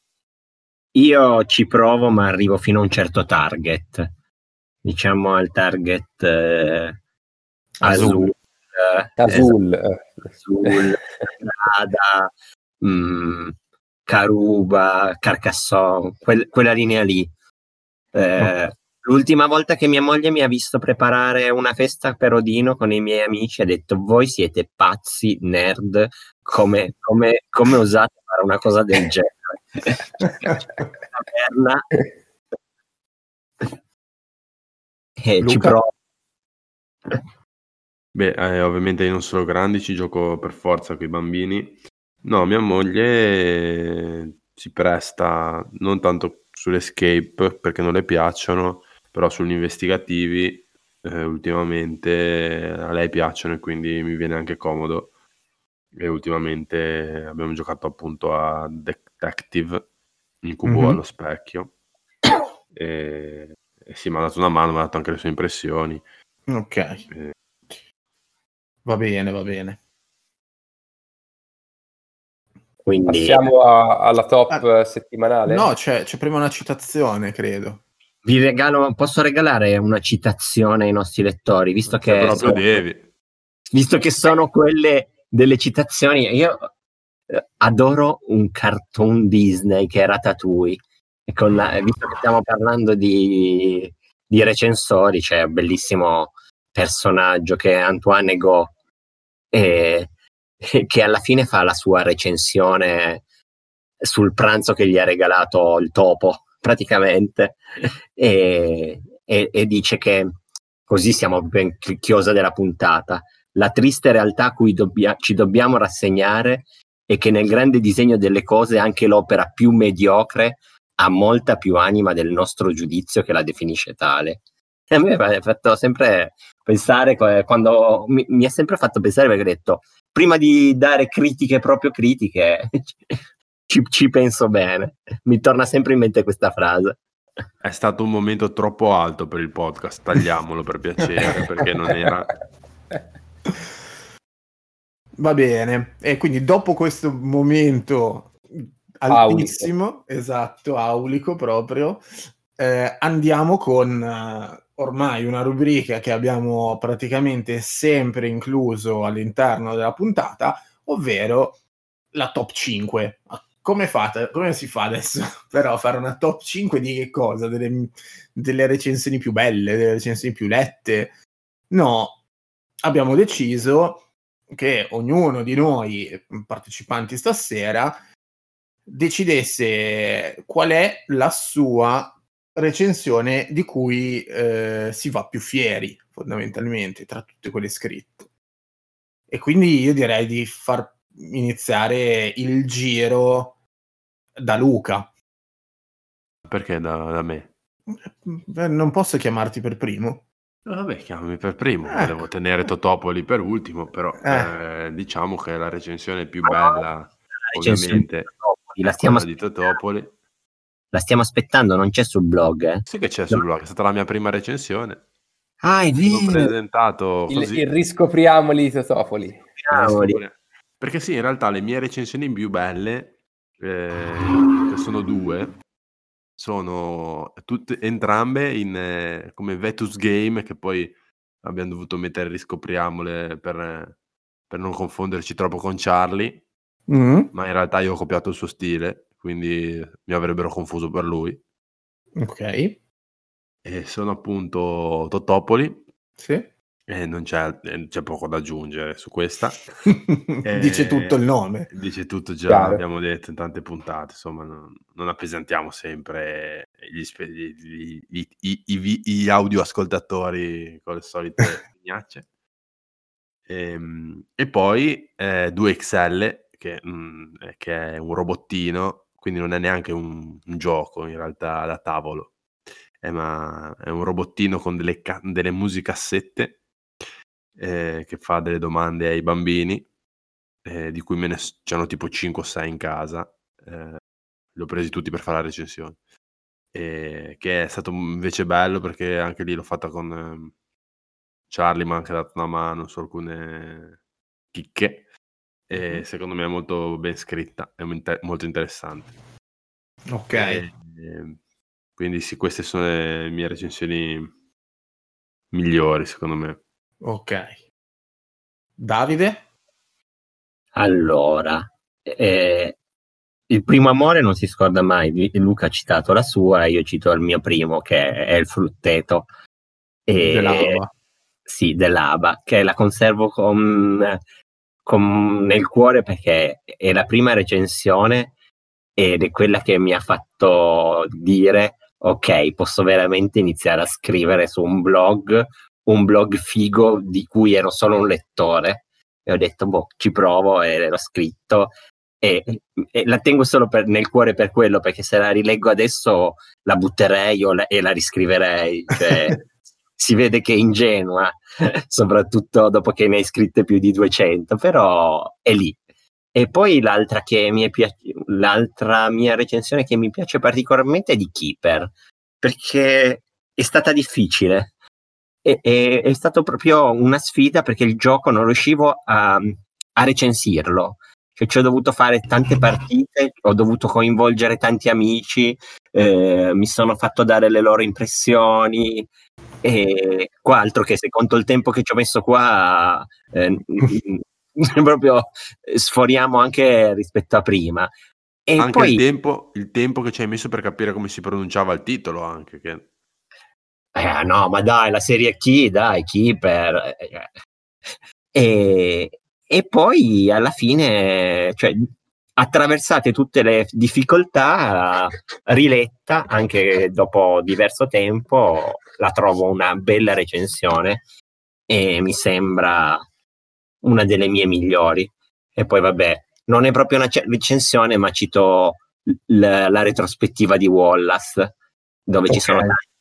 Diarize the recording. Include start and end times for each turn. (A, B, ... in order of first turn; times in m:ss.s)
0:00.9-0:04.1 A
0:04.8-0:07.0 A
0:07.8-0:08.3 B
0:07.8-0:09.5 A
0:09.2-0:10.1 C
0:10.4-0:17.3 A
0:18.1-0:30.5 A
0:31.1-0:31.9 A
0:35.2-0:35.9 A
0:35.4-0:35.8 B
0:38.1-0:55.1 D
0:55.9-0:59.9 D
1:00.4-1:01.7 D
1:00.6-1:01.0 B
1:02.7-1:06.0 D
1:06.5-1:07.0 B
1:08.8-1:09.8 B
1:12.8-1:13.4 A
1:13.1-1:15.7 C
1:15.5-1:17.8 B
1:18.2-1:22.8 A
1:22.0-1:23.1 D
1:23.7-1:26.7 A
1:27.3-1:38.7 A
1:39.5-1:40.1 A
1:40.6-1:43.2 A
1:44.0-1:50.3 A
1:50.9-2:04.4 A
2:04.9-2:17.0 A
2:17.6-2:22.3 D
2:25.2-2:41.6 B
2:29.1-2:29.7 C
2:42.1-2:51.1 B
2:51.7-2:52.2 B
2:52.8-2:58.0 B
2:58.9-3:08.3 B
3:09.3-3:13.6 B
3:14.4-3:15.1 B
3:16.5-3:17.5 D
3:17.9-3:20.2 B
3:20.6-3:30.1 D
3:21.9-3:22.2 B
3:24.2-3:24.5 B
3:26.4-3:26.8 A
3:27.5-3:29.8 A
3:30.9-3:33.4 A
3:32.8-3:35.0 D
3:35.6-3:36.5 A
3:36.0-3:37.7 D
3:37.3-3:39.4 C
3:39.6-3:40.2 A
3:39.7-3:45.6 D
3:46.4-3:54.0 D
3:54.5-3:56.4 D
3:56.9-3:57.3 B
3:57.3-4:01.4 D
4:02.2-4:02.8 B
4:03.6-4:05.8 D
4:06.2-4:06.5 B
4:06.9-4:09.7 D
4:09.8-4:11.7 B
4:10.4-4:22.3 D
4:12.5-4:12.8 C
4:23.5-4:32.4 D
4:33.0-4:36.6 D
4:37.6-4:39.9 D
4:40.6-4:44.0 D
4:44.5-4:46.0 D
4:46.7-4:50.5 D
4:51.5-4:54.0 D
4:54.5-4:55.0 D
4:55.7-4:59.1 D
5:00.1-5:00.6 B
5:00.3-5:01.4 D
5:02.0-5:04.3 D
5:05.5-5:06.6 D
5:07.0-5:07.6 B
5:08.8-5:09.4 B
5:10.8-5:12.8 A
5:13.5-5:19.3 A
5:20.0-5:20.8 A
5:20.2-5:20.9 B
5:21.4-5:24.2 A
5:24.8-5:28.3 A
5:29.0-5:49.4 A
5:50.0-5:55.8 A
5:56.3-6:04.7 A
6:05.4-6:19.1 A
6:19.6-6:27.9 A
6:28.4-6:29.0 A
6:28.6-6:32.9 D
6:33.9-6:37.3 A
6:38.3-6:51.0 A
6:51.7-6:53.0 A
6:53.8-7:01.5 A
7:02.1-7:02.8 A